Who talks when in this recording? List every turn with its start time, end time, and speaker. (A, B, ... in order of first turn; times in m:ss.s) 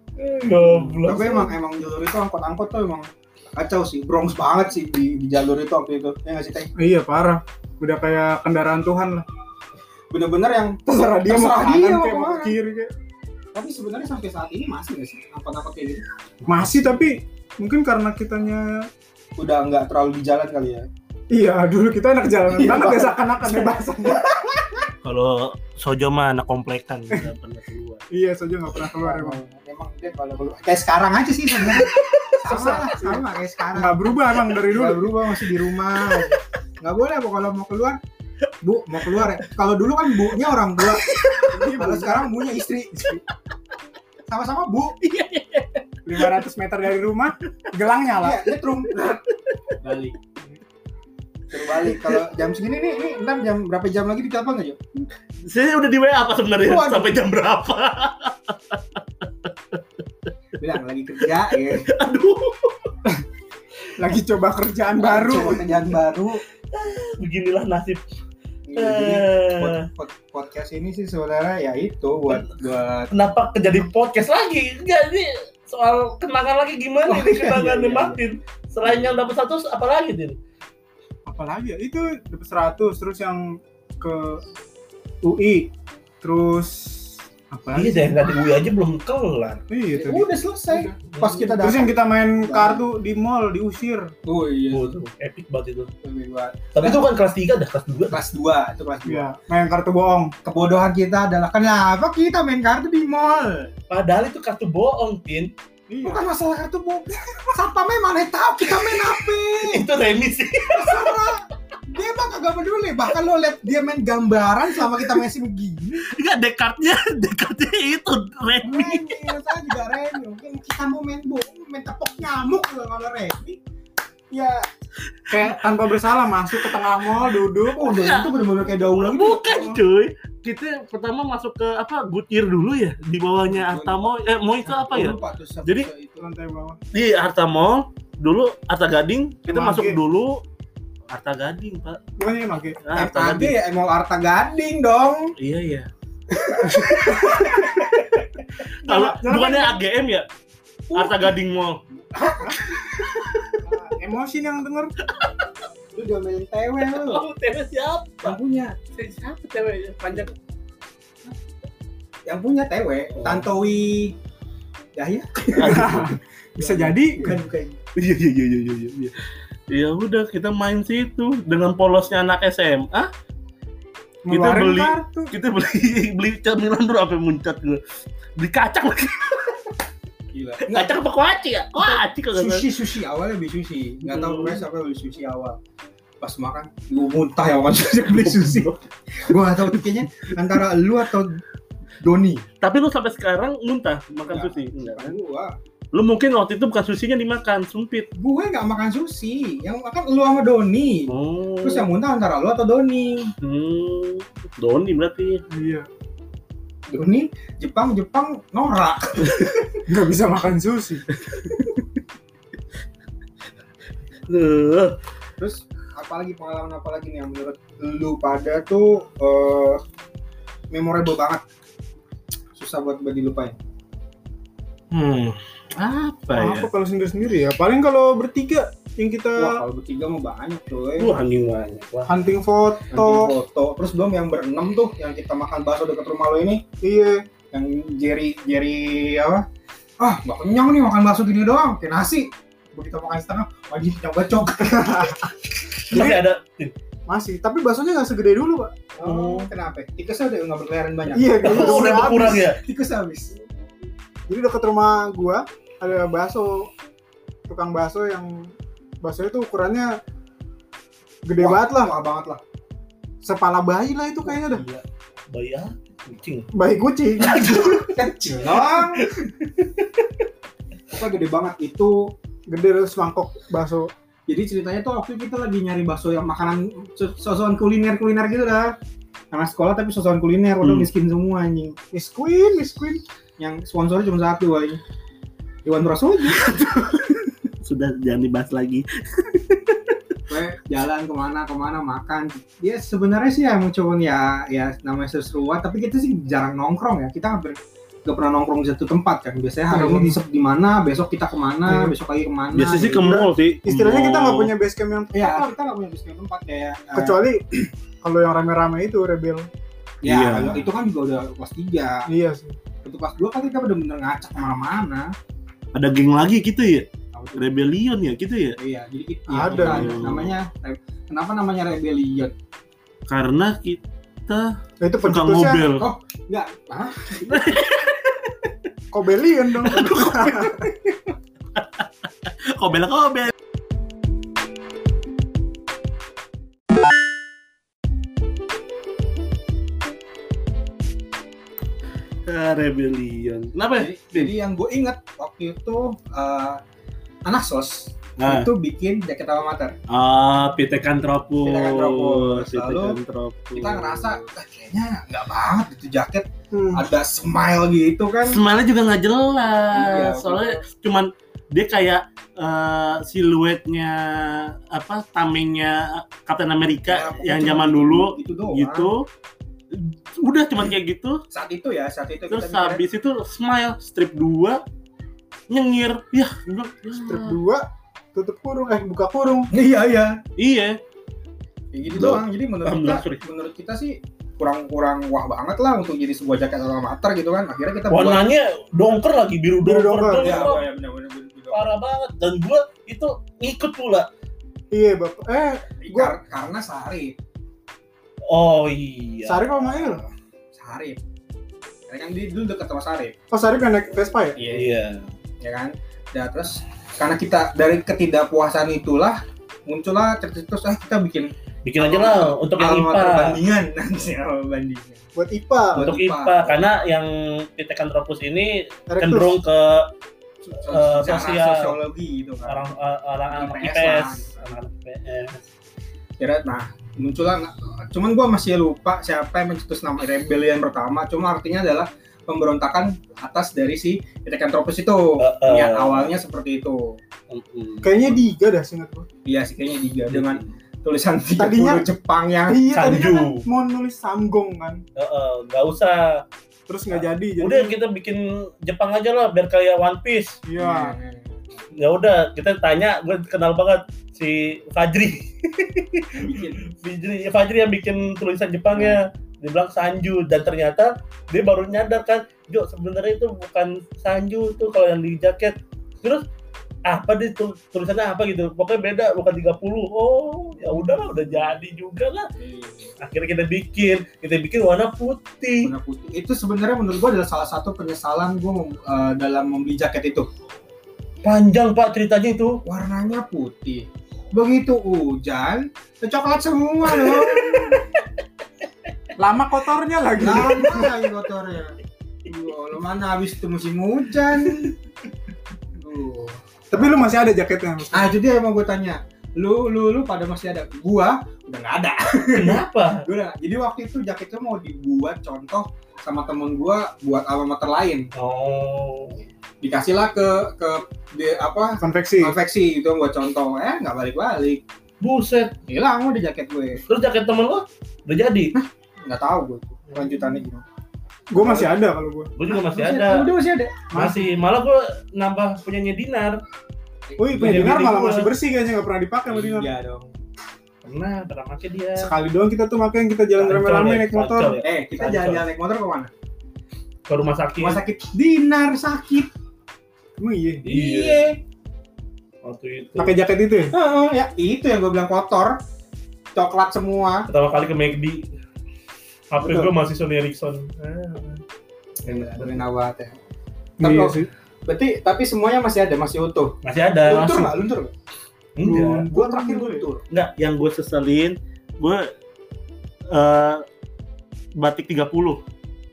0:00.2-0:01.5 A
0:00.6-0:06.7 B
0:06.8-0:09.3 C
0:10.1-0:12.6 B
0:10.9-0:12.9 C
0:13.5-0:16.0 B
0:16.4-0:18.9 C
0:19.4-0:20.9 B
0:21.3-0:24.3 C
0:22.5-0:24.8 B
0:25.0-0:28.0 A
0:28.1-0:29.4 C
0:29.0-0:38.0 B
0:32.4-0:33.2 C
0:33.8-0:35.2 C
0:38.6-0:41.1 B
0:40.9-0:41.7 A
0:41.5-0:42.3 C
0:41.8-0:43.2 B
0:44.3-0:45.0 B
0:45.0-0:46.3 A
0:46.0-0:48.5 C
0:48.2-0:49.2 B
0:49.8-0:50.2 B
0:51.5-0:54.8 B
0:55.4-0:59.8 A
0:56.6-0:57.1 B
1:00.6-1:01.9 B
1:01.5-1:02.9 A
1:04.0-1:05.7 C
1:05.0-1:06.4 B
1:06.7-1:08.0 A
1:08.7-1:13.1 B
1:08.8-1:09.9 A
1:13.1-1:20.4 A
1:17.1-1:18.2 B
1:18.8-1:19.1 B
1:21.3-1:24.4 C
1:25.2-1:25.7 C
1:26.2-1:28.4 C
1:27.8-1:29.6 A
1:29.7-1:30.9 C
1:29.9-1:32.8 B
1:31.1-1:31.4 A
1:31.5-1:34.1 C
1:34.3-1:34.9 B
1:34.7-1:35.9 A
1:36.0-1:37.0 B
1:36.7-1:38.2 A
1:38.1-1:39.3 B
1:39.1-1:40.3 C
1:40.4-1:43.7 B
1:43.9-1:45.5 A
1:45.9-1:46.3 C
1:46.0-1:49.9 B
1:48.7-1:51.2 A
1:50.7-1:56.1 B
1:56.0-1:59.2 A
1:58.6-2:03.6 B
2:04.3-2:04.7 B
2:05.3-2:08.0 C
2:07.8-2:09.8 B
2:07.8-2:15.9 A
2:13.5-2:14.2 B
2:14.7-2:16.2 B
2:16.2-2:16.8 C
2:16.9-2:20.4 A
2:19.5-2:20.0 C
2:21.1-2:22.0 A
2:22.2-2:22.8 C
2:22.8-2:23.6 A
2:23.0-2:25.3 B
2:25.4-2:25.9 A
2:26.6-2:30.3 A
2:26.6-2:27.1 B
2:27.0-2:27.9 C
2:28.8-2:29.8 C
2:30.9-2:31.4 B
2:30.9-2:31.8 A
2:32.1-2:32.6 B
2:32.6-2:33.5 A
2:33.6-2:33.9 B
2:33.7-2:34.9 C
2:35.0-2:35.5 A
2:36.0-2:37.2 B
2:36.8-2:38.4 A
2:38.2-2:38.8 B
2:38.9-2:40.4 A
2:42.3-2:44.2 B
2:43.1-2:43.5 A
2:45.0-2:47.8 B
2:45.6-2:46.1 A
2:45.6-2:47.4 C
2:48.0-2:49.1 A
2:49.7-2:53.1 A
2:54.2-2:55.3 C
2:54.3-2:57.8 A
2:58.4-2:59.6 A
3:00.3-3:01.0 B
3:00.6-3:02.7 A
3:01.8-3:05.6 B
3:04.0-3:04.6 A
3:06.2-3:08.7 B
3:08.1-3:08.8 A
3:09.2-3:11.4 B
3:12.0-3:12.4 B
3:12.6-3:15.2 A
3:14.3-3:15.6 B
3:15.9-3:18.1 A
3:18.2-3:21.1 B
3:21.1-3:21.9 A
3:21.6-3:23.3 B
3:23.4-3:25.4 A
3:25.5-3:25.9 C
3:26.9-3:29.5 B
3:29.9-3:31.0 C
3:31.3-3:31.6 A
3:34.3-3:35.0 A
3:35.4-3:39.8 B
3:40.7-3:41.4 B
3:42.6-3:43.6 B
3:44.9-3:46.7 A
3:46.3-3:49.6 C
3:49.4-3:51.2 B
3:51.0-3:52.1 A
3:52.1-3:53.3 C
3:52.9-3:56.6 B
3:56.8-3:57.2 C
3:57.5-3:59.4 B
4:00.0-4:05.3 B
4:04.8-4:05.1 C
4:05.6-4:06.7 A
4:07.1-4:08.8 C
4:09.0-4:13.4 B
4:09.0-4:09.5 A
4:11.1-4:12.4 C
4:11.4-4:12.6 A
4:14.3-4:16.7 C
4:17.5-4:20.0 C
4:21.2-4:22.0 C
4:21.4-4:22.4 B
4:23.2-4:24.6 C
4:24.3-4:24.8 B
4:25.3-4:26.5 A
4:26.5-4:27.5 C
4:27.2-4:30.3 A
4:27.7-4:29.1 B
4:30.9-4:32.1 B
4:32.5-4:33.9 C
4:34.3-4:38.8 B
4:39.3-4:41.8 B
4:40.6-4:40.9 A
4:41.9-4:43.0 C
4:43.4-4:44.8 B
4:45.6-4:46.6 B
4:46.3-4:50.0 A
4:50.3-5:03.3 B
4:59.7-5:00.2 C
5:01.7-5:02.0 C
5:02.5-5:04.5 A
5:03.6-5:05.5 C
5:05.1-5:07.2 B
5:06.9-5:09.5 C
5:10.0-5:10.6 A
5:10.0-5:12.1 B
5:12.1-5:12.6 C
5:12.8-5:15.1 B
5:15.8-5:18.6 A
5:17.1-5:17.4 B
5:18.6-5:22.3 B
5:19.3-5:20.1 C
5:19.4-5:20.4 A
5:23.1-5:24.5 A
5:24.8-5:25.6 C
5:25.0-5:25.9 A
5:25.8-5:27.4 B
5:27.2-5:28.5 A
5:28.9-5:30.7 C
5:29.7-5:30.8 A
5:31.6-5:33.3 A
5:42.3-5:44.3 A
5:43.8-5:46.6 B
5:47.2-5:49.8 B
5:48.2-5:48.5 A
5:49.9-5:54.3 A
5:51.4-5:53.0 B
5:53.5-5:58.4 B
5:56.5-5:56.8 C
5:58.3-6:09.1 A
5:59.7-6:00.6 B
6:06.9-6:08.9 B
6:09.7-6:11.2 A
6:11.3-6:12.8 B
6:12.3-6:14.6 A
6:15.5-6:17.4 A
6:17.0-6:19.5 C
6:19.5-6:20.2 B
6:20.4-6:20.8 A
6:21.7-6:28.2 B
6:21.9-6:23.2 A
6:27.9-6:30.7 A
6:29.6-6:30.4 C
6:30.2-6:31.7 B
6:31.5-6:34.1 A
6:34.7-6:36.2 C
6:35.8-6:37.2 B
6:38.3-6:39.6 A
6:39.2-6:40.0 C
6:39.7-6:40.0 B
6:40.6-6:41.0 B
6:41.9-6:43.1 B
6:43.3-6:44.4 C
6:44.4-6:44.7 B
6:44.5-6:45.1 A
6:45.4-6:55.0 B
6:51.6-6:53.4 A
6:55.2-6:55.9 C
6:55.7-6:56.7 B
6:55.8-6:59.9 A
6:58.9-6:59.4 C
7:00.4-7:02.7 B
7:00.7-7:01.8 A
7:02.5-7:05.4 A
7:03.3-7:04.5 B
7:06.2-7:17.0 B
7:15.2-7:16.1 A
7:17.3-7:18.2 A
7:17.8-7:19.1 C
7:19.3-7:22.6 B
7:20.1-7:20.5 A
7:21.4-7:21.8 C
7:22.5-7:24.8 C
7:22.7-7:23.5 A
7:25.0-7:26.2 A
7:26.7-7:27.8 C
7:27.4-7:30.4 A
7:30.5-7:31.0 C
7:30.6-7:31.6 B
7:31.7-7:46.2 A
7:36.1-7:36.6 B
7:38.7-7:39.0 B
7:46.9-7:52.3 A
7:52.4-7:52.9 B
7:53.0-7:55.7 A
7:55.6-8:00.3 B
8:01.2-8:02.6 A
8:02.6-8:07.9 B
8:06.9-8:07.9 A
8:09.2-8:10.9 C
8:10.2-8:14.7 B
8:15.8-8:17.0 B
8:16.7-8:18.2 C
8:17.9-8:28.1 B
8:22.4-8:23.0 A
8:28.2-8:29.2 A
8:29.6-8:34.6 B
8:31.8-8:32.4 C
8:35.0-8:35.6 A
8:35.7-8:36.8 B
8:36.9-8:38.6 A
8:38.5-8:40.6 B
8:41.3-8:42.3 C
8:41.4-8:41.8 B
8:42.4-8:43.3 A
8:42.5-8:43.8 B
8:43.9-8:44.3 C
8:43.9-8:46.4 A
8:47.1-8:47.6 B
8:47.2-8:49.7 C
8:47.4-8:48.3 A
8:49.3-8:50.1 B
8:50.8-8:52.1 A
8:52.0-8:54.6 C
8:53.4-8:55.5 A
8:54.6-8:56.1 B
8:57.1-8:57.8 A
8:57.6-8:59.3 B
9:00.2-9:00.7 C
9:00.6-9:01.3 A
9:00.7-9:01.4 B
9:02.4-9:03.2 A
9:03.0-9:03.7 C
9:03.7-9:05.6 B
9:06.4-9:07.3 B
9:07.3-9:08.3 A
9:09.3-9:11.4 A
9:09.4-9:09.7 B
9:12.0-9:13.2 B
9:12.1-9:12.6 A
9:13.8-9:14.3 C
9:13.8-9:17.9 B
9:16.6-9:17.5 A
9:18.6-9:19.1 A
9:18.6-9:19.9 C
9:19.1-9:20.0 B
9:20.1-9:22.1 A
9:23.1-9:23.6 A
9:24.6-9:25.4 A